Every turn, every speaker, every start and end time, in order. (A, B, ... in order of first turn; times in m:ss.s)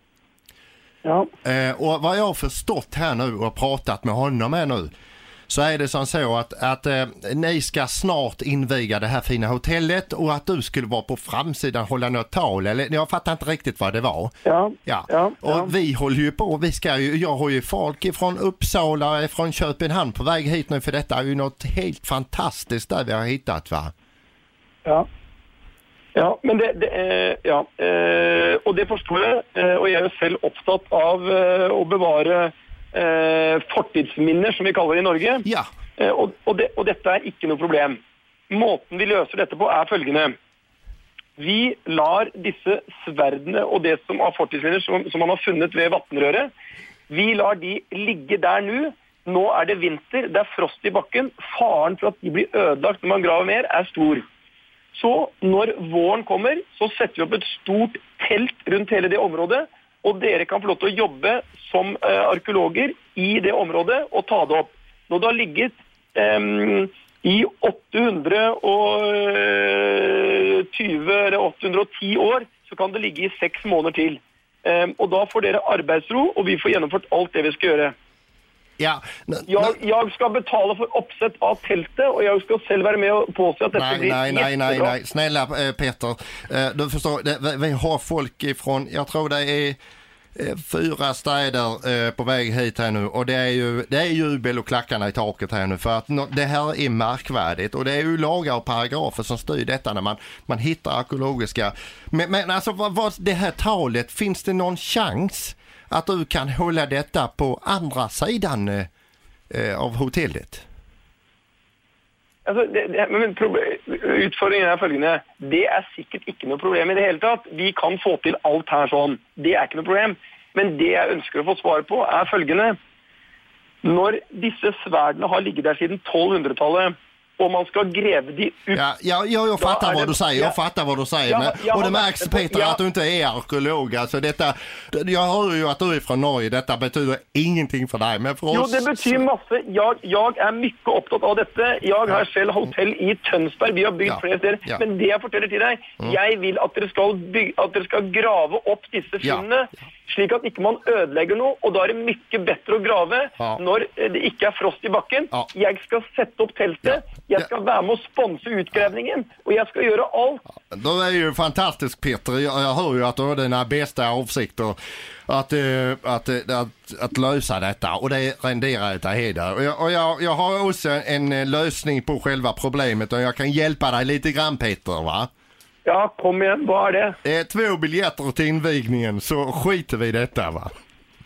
0:01.0-0:01.3 A
0:01.4-0:04.9 B
0:05.5-0:14.3 B
0:14.4-0:15.7 A
0:14.8-0:23.9 B
0:26.1-0:35.4 A
0:35.4-0:35.7 B
0:36.0-0:40.4 A
0:41.4-0:46.5 A
0:47.1-0:54.2 A
0:54.9-1:17.9 A
1:18.8-1:19.7 B
1:19.5-1:24.9 A
1:23.7-1:29.8 B
1:30.4-1:48.9 B
1:49.5-1:50.6 B
1:52.4-2:02.8 A
2:03.8-2:08.8 A
2:08.7-2:19.2 B
2:09.6-2:10.6 A
2:11.3-2:12.8 A
2:18.5-2:40.4 A
2:24.0-2:24.8 B
2:40.7-2:44.8 B
2:45.3-2:55.3 B
2:55.8-2:57.2 A
2:57.2-3:00.7 B